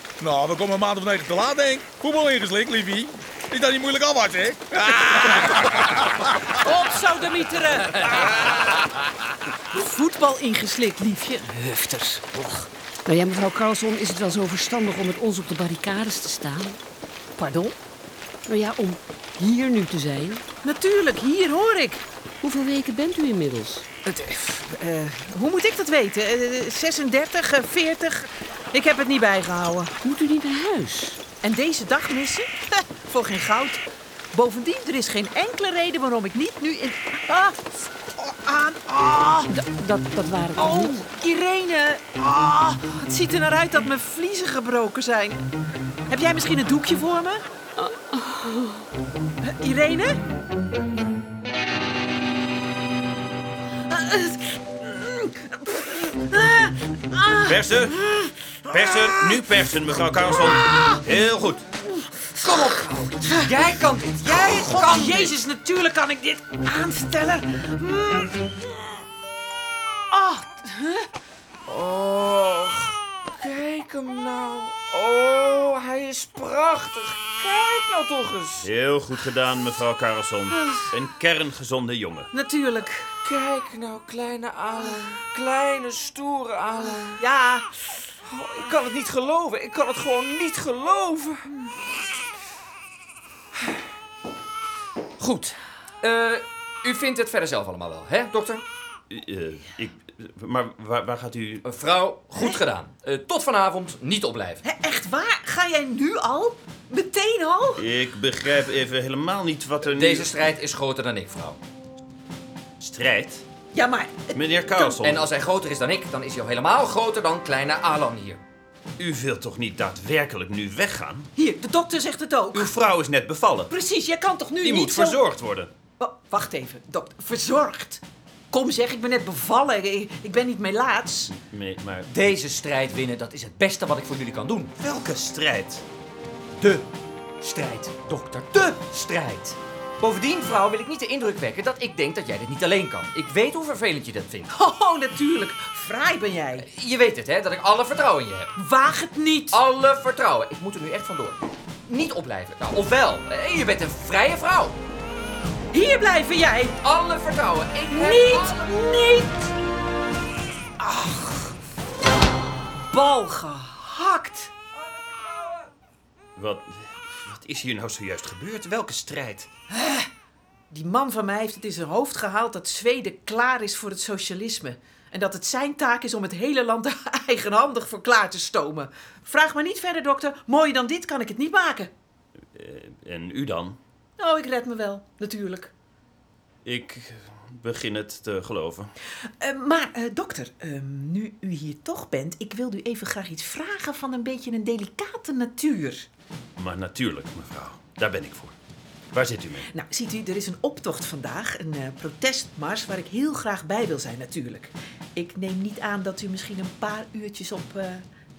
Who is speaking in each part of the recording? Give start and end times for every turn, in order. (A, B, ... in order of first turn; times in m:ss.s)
0:00.2-0:05.8 A
0:06.6-0:08.3 B
0:09.7-0:12.4 B
0:13.1-0:16.8 C
0:17.4-0:17.8 B
0:18.5-0:20.4 C
0:20.6-0:22.0 B
0:22.4-0:23.9 C
0:24.0-0:29.9 B
0:30.0-0:31.2 C
0:31.4-0:39.5 B
0:39.5-0:41.0 C
0:40.6-0:45.4 B
0:46.1-0:47.4 B
0:49.4-0:50.2 B
0:53.9-0:59.4 B
0:57.5-0:57.9 D
0:58.7-1:01.6 D
1:00.3-1:01.0 B
1:02.4-1:08.6 B
1:04.2-1:05.3 E
1:10.1-1:11.1 B
1:11.7-1:18.7 E
1:18.6-1:22.3 D
1:20.5-1:20.9 B
1:22.3-1:23.2 B
1:23.2-1:27.2 E
1:27.0-1:27.7 B
1:28.3-1:31.4 E
1:35.2-1:38.6 F
1:39.1-1:41.6 D
1:41.6-1:44.6 F
1:44.6-1:47.8 B
1:47.8-1:50.3 D
1:49.9-1:51.6 F
1:52.8-1:53.4 D
1:53.7-1:55.1 B
1:54.3-1:55.3 D
1:55.0-1:58.4 F
1:59.0-2:01.3 D
2:01.4-2:02.8 B
2:02.5-2:03.7 D
2:03.7-2:05.2 B
2:04.6-2:05.4 F
2:04.6-2:05.7 D
2:06.0-2:11.3 B
2:11.4-2:12.1 D
2:12.1-2:14.7 F
2:14.8-2:15.8 D
2:16.6-2:16.8 F
2:17.4-2:24.5 F
2:24.5-2:26.7 B
2:26.6-2:28.5 F
2:28.6-2:29.6 B
2:29.5-2:34.8 F
2:35.7-2:36.8 B
2:36.8-2:38.7 F
2:37.9-2:39.3 B
2:40.8-2:41.5 B
2:42.8-2:44.5 B
2:46.4-2:49.4 D
2:48.6-2:49.5 F
2:49.7-2:50.1 B
2:50.7-3:01.9 B
3:02.5-3:03.8 D
3:04.2-3:05.7 B
3:06.6-3:08.9 D
3:09.4-3:16.1 B
3:16.6-3:18.6 D
3:19.1-3:19.7 D
3:19.7-3:28.0 B